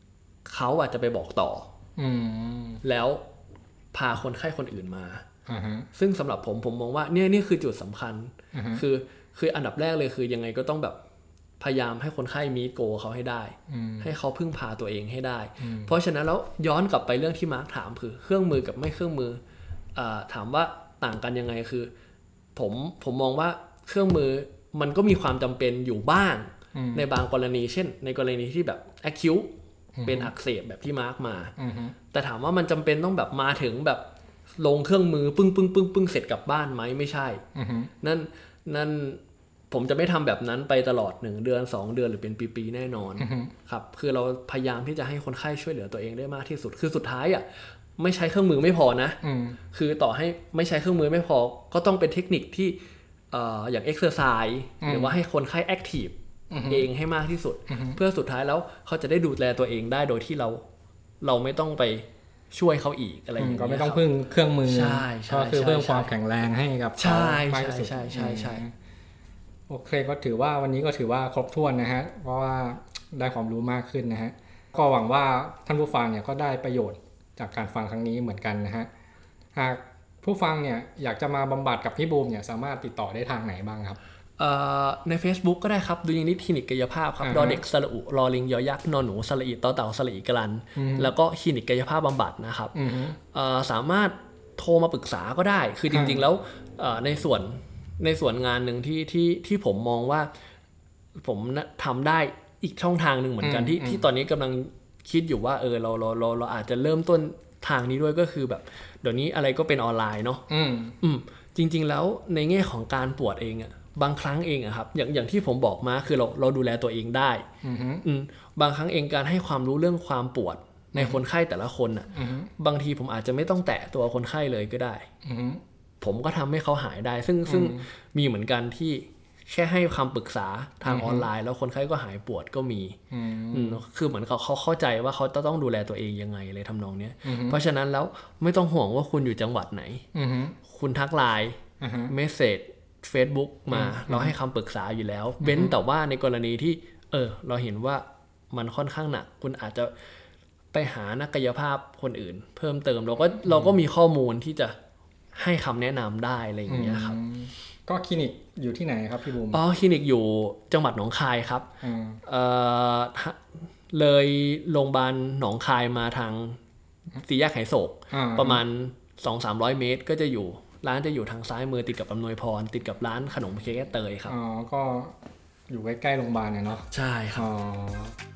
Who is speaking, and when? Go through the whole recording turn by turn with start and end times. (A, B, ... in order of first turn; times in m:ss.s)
0:00.5-0:01.7 A
0:02.0-0:02.8 B
0:02.8-0:03.2 A
0:03.9-0:05.2 A
0:05.5-0:05.9 B
0:05.9-0:11.0 A
0:08.5-0:08.8 B
0:11.6-0:19.4 A
0:13.7-0:14.1 B
0:15.6-0:15.9 B
0:20.0-0:21.9 A
0:22.6-0:29.5 A
0:26.7-0:27.1 B
0:30.0-0:30.3 B
0:30.0-0:31.6 A
0:31.6-0:32.0 B
0:32.1-0:34.0 A
0:34.6-0:37.4 A
0:37.6-0:37.9 B
0:38.0-0:47.5 A
0:43.2-0:43.5 B
0:48.0-0:49.2 A
0:49.2-0:49.6 B
0:49.7-0:52.8 A
0:53.3-0:56.2 A
0:54.8-0:55.2 B
0:56.5-0:56.9 B
0:56.7-1:00.6 A
0:57.7-0:58.0 B
1:01.2-1:04.1 A
1:03.4-1:08.7 B
1:04.6-1:06.1 A
1:07.0-1:08.6 A
1:09.7-1:18.9 B
1:19.6-1:24.0 B
1:24.4-1:40.3 A
1:27.2-1:27.6 B
1:30.8-1:31.1 B
1:32.7-1:33.2 B
1:35.9-1:36.2 B
1:41.2-1:50.4 A
1:43.4-1:44.0 B
1:50.5-1:51.0 B
1:51.0-1:57.4 A
1:57.6-1:58.0 B
1:58.0-2:05.1 A
2:02.1-2:02.5 B
2:05.2-2:05.6 B
2:06.0-2:13.0 A
2:07.5-2:07.9 B
2:10.9-2:11.3 B
2:13.1-2:13.8 B
2:13.5-2:20.0 A
2:17.2-2:17.6 B
2:20.1-2:20.6 B
2:20.7-2:29.9 A
2:21.8-2:22.1 B
2:23.7-2:24.3 B
2:25.4-2:25.8 B
2:30.7-2:34.8 A
2:33.5-2:33.8 B
2:35.4-2:37.2 A
2:36.7-2:39.6 B
2:39.5-2:41.7 A
2:41.8-2:42.2 B
2:42.2-2:46.6 A
2:47.2-2:54.4 A
2:48.1-2:48.6 B
2:54.3-2:55.1 B
2:55.7-2:56.9 B
2:56.9-2:57.5 A
2:57.4-2:58.2 B